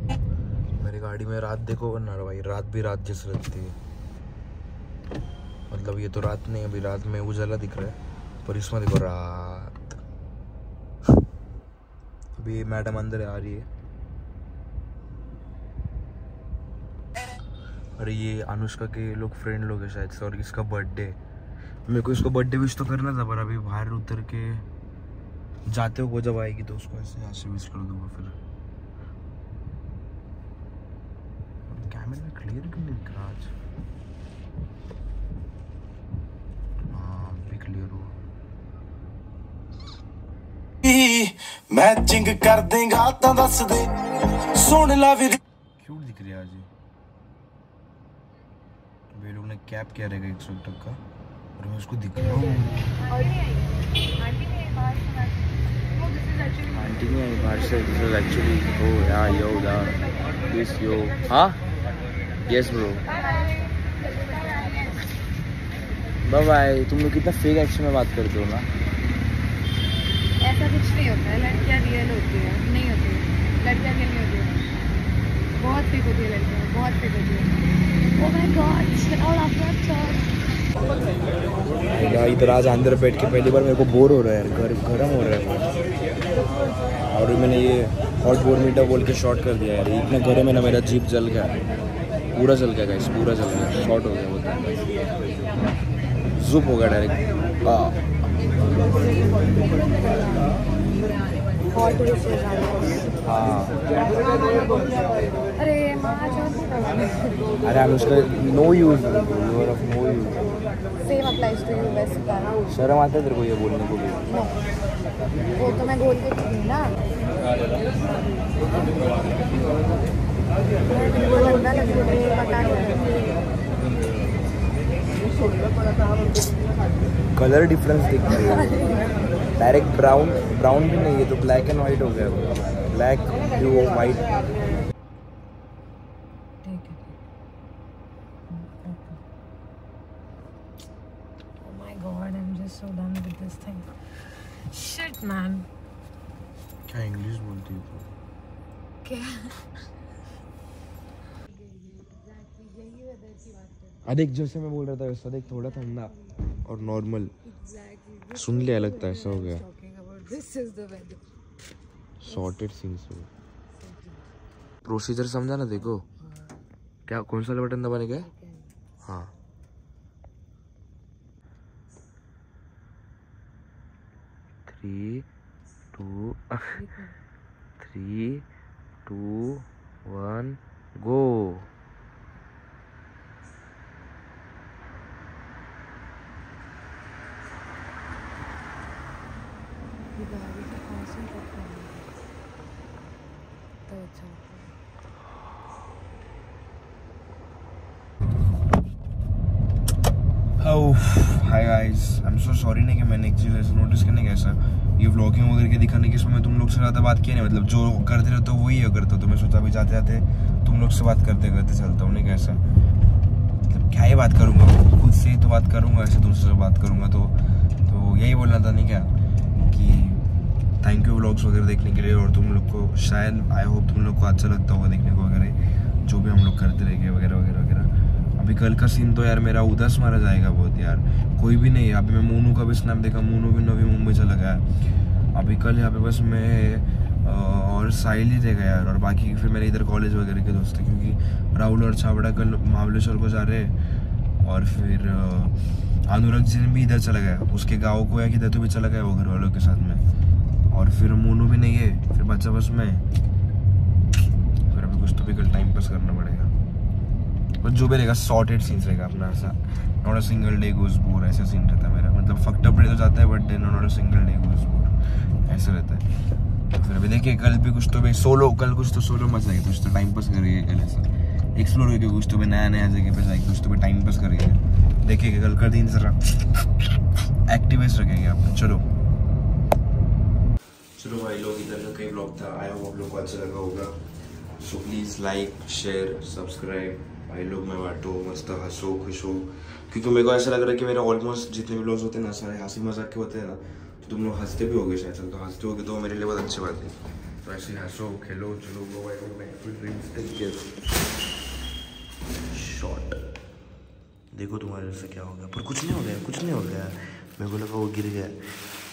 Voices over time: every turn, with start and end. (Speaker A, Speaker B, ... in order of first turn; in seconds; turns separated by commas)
Speaker A: 0.8-3.7, Speaker A: 5.7-10.0, Speaker A: 12.4-13.7, Speaker A: 18.0-21.2, Speaker A: 21.9-24.6, Speaker A: 25.7-28.4, Speaker A: 31.7-33.5, Speaker A: 36.9-38.1, Speaker B: 40.8-43.9, Speaker B: 44.5-45.4, Speaker A: 45.8-46.7, Speaker A: 49.1-51.0, Speaker A: 51.6-53.0, Speaker C: 53.1-53.4, Speaker C: 54.2-55.1, Speaker A: 56.7-61.6, Speaker A: 62.4-63.0, Speaker C: 63.2-63.6, Speaker C: 64.4-64.8, Speaker A: 66.2-68.7, Speaker C: 70.4-74.6, Speaker C: 75.5-77.6, Speaker C: 78.2-80.2, Speaker A: 81.9-85.8, Speaker A: 87.1-91.5, Speaker A: 92.3-94.9, Speaker A: 96.3-98.0, Speaker C: 98.9-100.5, Speaker C: 101.5-103.1, Speaker A: 103.2-103.8, Speaker C: 104.1-105.0, Speaker C: 105.6-107.4, Speaker A: 107.6-110.5, Speaker C: 111.0-112.6, Speaker A: 112.7-114.2, Speaker C: 114.3-114.6, Speaker C: 115.5-117.0, Speaker C: 120.9-123.2, Speaker A: 127.3-128.8, Speaker C: 128.7-129.0, Speaker A: 129.6-134.3, Speaker C: 136.6-137.1, Speaker C: 138.5-139.2, Speaker C: 141.6-143.9, Speaker C: 144.7-145.7, Speaker A: 146.9-148.1, Speaker C: 149.0-149.5, Speaker C: 151.5-154.0, Speaker A: 154.0-156.1, Speaker C: 155.6-156.6, Speaker A: 156.6-157.3, Speaker C: 157.4-161.2, Speaker A: 158.3-159.6, Speaker A: 162.2-163.3, Speaker C: 163.8-164.2, Speaker A: 164.8-166.0, Speaker C: 165.7-166.5, Speaker A: 167.1-168.3, Speaker C: 168.2-168.7, Speaker A: 169.0-169.3, Speaker A: 174.7-175.2, Speaker A: 175.9-176.8, Speaker C: 176.7-177.1, Speaker A: 177.8-178.4, Speaker A: 179.1-181.7, Speaker C: 190.2-192.1, Speaker C: 193.9-194.7, Speaker A: 200.6-212.6, Speaker A: 213.7-217.3, Speaker A: 217.9-219.1, Speaker A: 219.7-220.2, Speaker A: 220.8-225.6, Speaker A: 226.1-234.6, Speaker A: 235.3-243.7, Speaker A: 244.4-245.5, Speaker A: 246.1-250.0, Speaker A: 250.7-253.0, Speaker A: 254.7-256.5, Speaker A: 257.6-264.9, Speaker A: 265.5-266.0, Speaker A: 266.7-271.1, Speaker A: 271.6-276.4, Speaker A: 277.5-278.8, Speaker A: 281.0-283.9, Speaker A: 284.6-300.7, Speaker A: 302.5-303.2, Speaker A: 304.3-308.4